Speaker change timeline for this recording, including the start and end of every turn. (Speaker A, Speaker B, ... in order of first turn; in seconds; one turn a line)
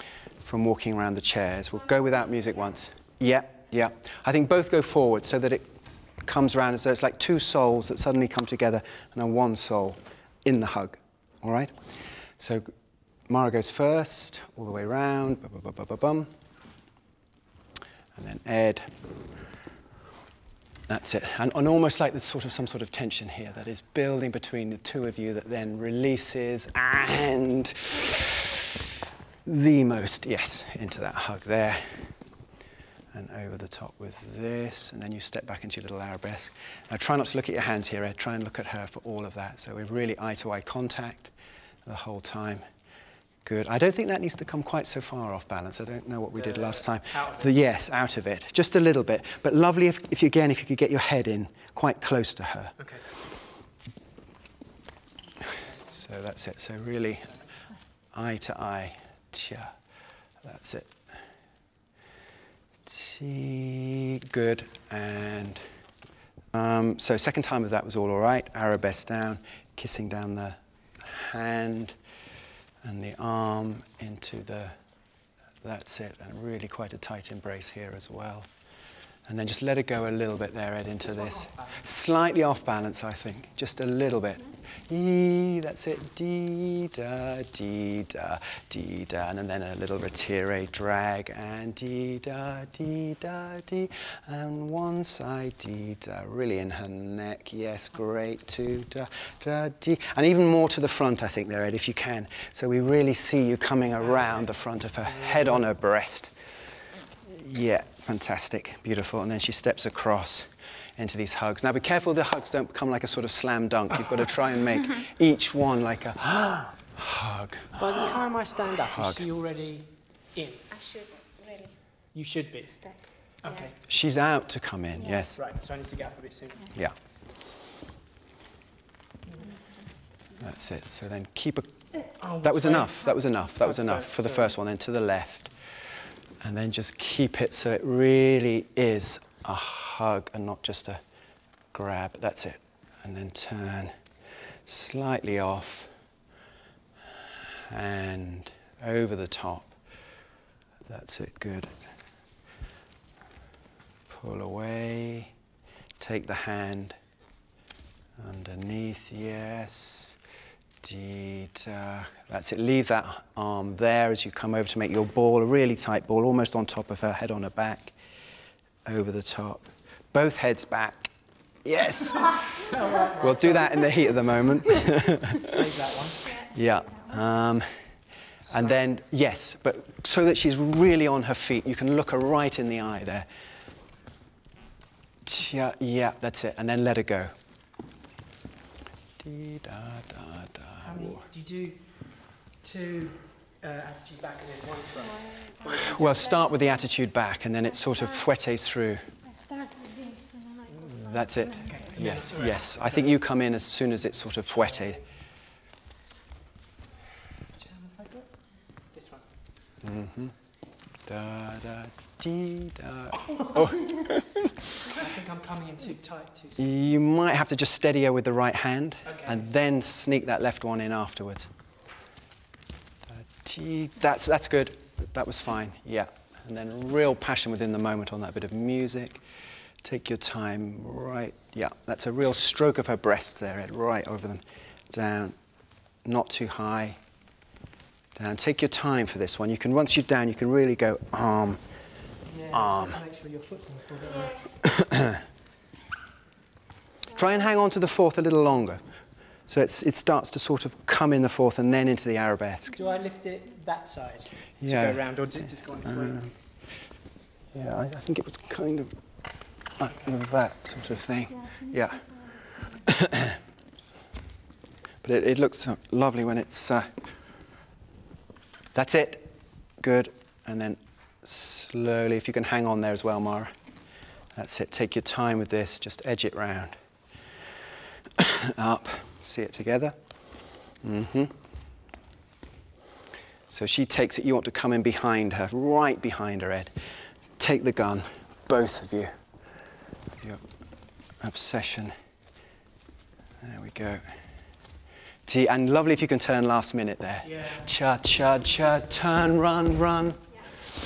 Speaker A: 0.4-5.7
Speaker A: 6.2-12.7
Speaker A: 13.2-16.3
Speaker A: 18.2-18.9
Speaker A: 20.9-28.5
Speaker A: 29.4-32.2
Speaker A: 33.1-41.3
Speaker A: 41.8-42.7
Speaker A: 43.4-52.8
Speaker B: 46.4-47.6
Speaker B: 52.8-53.1
Speaker B: 55.5-56.0
Speaker A: 55.9-57.4
Speaker A: 58.0-59.9
Speaker A: 60.4-61.3
Speaker A: 62.9-65.7
Speaker A: 66.5-72.0
Speaker A: 72.8-106.3
Speaker B: 81.1-81.8
Speaker A: 107.2-117.8
Speaker B: 117.8-120.7
Speaker A: 118.9-119.2
Speaker C: 120.7-121.7
Speaker B: 122.1-123.7
Speaker A: 123.9-125.4
Speaker B: 125.3-126.7
Speaker A: 126.7-127.0
Speaker B: 129.3-129.5
Speaker A: 130.4-141.0
Speaker B: 132.2-132.9
Speaker B: 133.7-134.5
Speaker A: 141.6-146.2
Speaker A: 147.7-150.0
Speaker A: 150.9-151.9
Speaker A: 154.1-155.3
Speaker A: 156.0-157.0
Speaker A: 158.2-160.2
Speaker A: 160.8-168.0
Speaker A: 168.8-175.5
Speaker B: 172.7-173.9
Speaker B: 175.4-176.3
Speaker C: 176.2-177.1
Speaker A: 176.5-177.7
Speaker A: 178.4-183.3
Speaker A: 185.2-187.3
Speaker A: 189.2-191.3
Speaker B: 190.8-196.1
Speaker C: 195.3-195.6
Speaker A: 195.8-199.2
Speaker C: 196.4-196.8
Speaker C: 197.9-198.2
Speaker C: 199.2-201.9
Speaker A: 201.0-205.0
Speaker B: 201.7-203.1
Speaker B: 204.7-204.9
Speaker B: 207.6-209.3
Speaker A: 209.8-214.4
Speaker B: 214.9-216.6
Speaker A: 216.6-221.5
Speaker B: 219.1-219.4
Speaker A: 223.1-229.2
Speaker A: 229.8-237.1
Speaker A: 238.2-241.6
Speaker B: 242.3-244.4
Speaker A: 242.5-243.0
Speaker A: 247.1-252.8
Speaker C: 252.7-253.0
Speaker B: 252.8-256.3
Speaker A: 254.6-256.8
Speaker A: 257.5-262.9
Speaker C: 261.3-262.9
Speaker A: 265.0-266.9
Speaker A: 268.7-276.8
Speaker A: 278.2-281.3
Speaker A: 283.5-286.7
Speaker A: 287.4-289.3
Speaker A: 290.2-291.9
Speaker A: 293.4-294.6
Speaker A: 295.2-300.3
Speaker B: 297.2-297.7